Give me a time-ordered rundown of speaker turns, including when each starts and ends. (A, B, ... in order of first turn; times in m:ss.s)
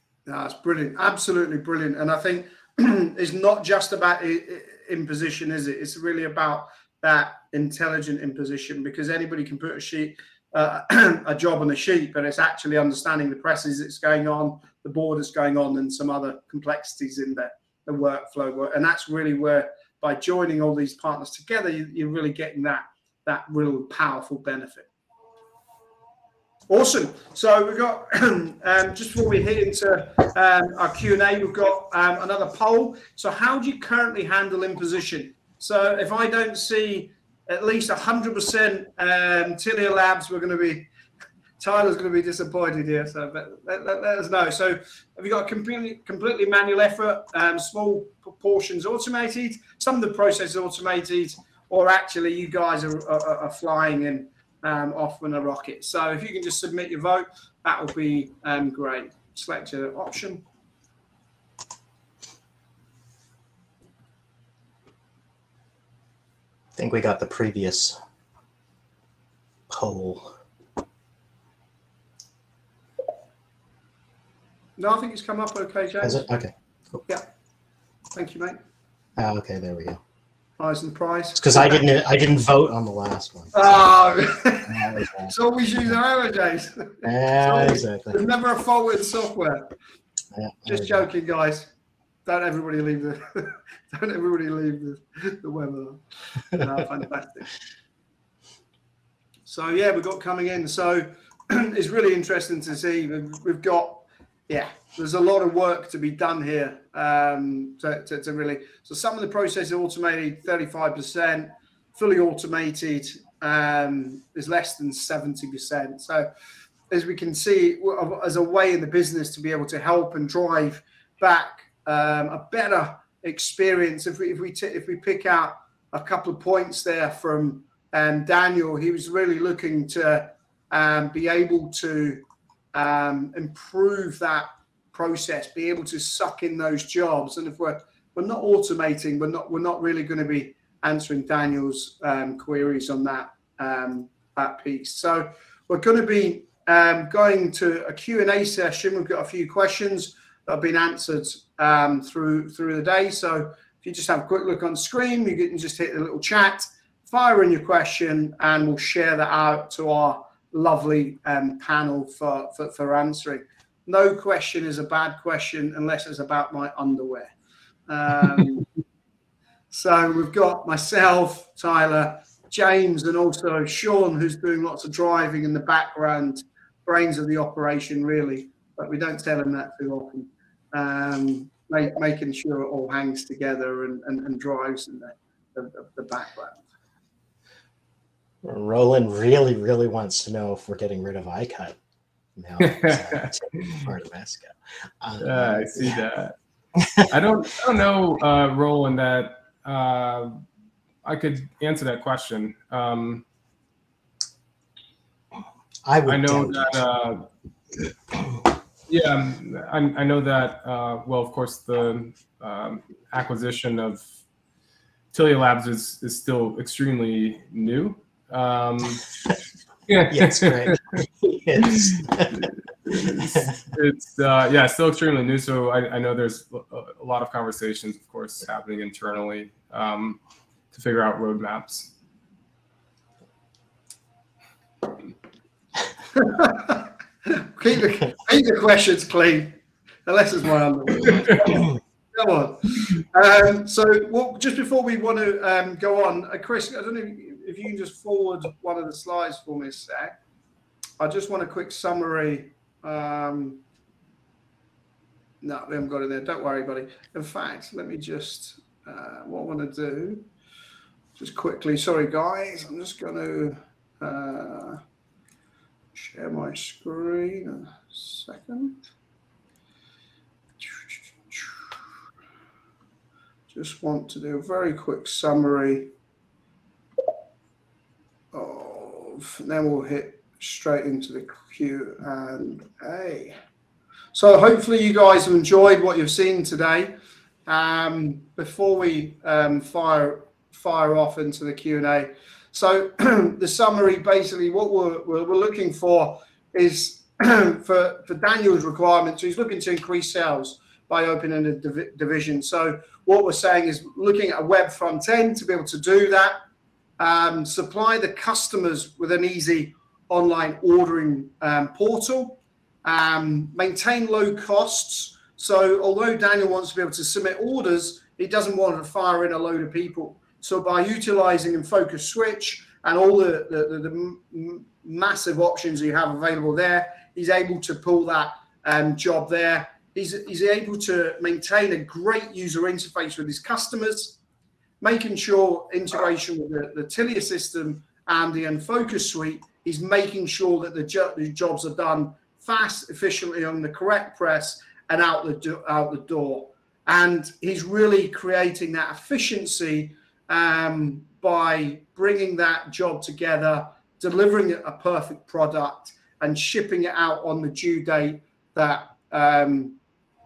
0:00.3-0:24.9 A
0:26.7-0:40.9 A
0:41.6-1:00.4 A
1:06.8-1:08.0 B
1:09.7-1:10.3 B
1:14.8-1:16.2 A
1:16.0-1:17.0 B
1:18.2-1:18.6 A
1:19.2-1:20.0 B
1:20.6-1:21.8 A
1:21.4-1:23.6 B
1:23.5-1:29.7 A
1:24.7-1:25.3 B
1:27.0-1:28.2 B
1:30.3-1:31.1 B
1:30.7-1:31.7 A
1:32.3-1:37.5 A
1:39.5-1:56.3 A
1:56.9-2:47.3 A
2:47.9-2:48.7 A
2:49.7-3:06.6 A
3:08.4-3:11.8 B
3:12.4-3:16.0 B
3:12.6-3:13.8 C
3:15.2-3:16.4 C
3:16.8-3:17.1 B
3:17.1-3:20.4 C
3:21.0-3:23.2 C
3:25.9-3:26.9 B
3:26.1-3:27.3 C
3:28.9-3:34.0 C
3:35.1-3:39.1 C
3:39.9-3:41.0 C
3:40.1-3:43.5 B
3:41.6-3:50.2 C
3:50.7-3:51.9 C
3:56.1-4:10.2 A
4:11.0-4:13.6 A
4:15.4-4:20.2 A
4:21.2-4:24.8 A
4:26.0-4:28.8 A
4:30.6-4:31.6 A
4:33.5-4:35.9 A
4:38.3-4:43.4 A
4:44.1-4:46.9 A
4:47.5-5:06.4 A
5:07.0-5:34.2 A
5:34.8-5:59.8 A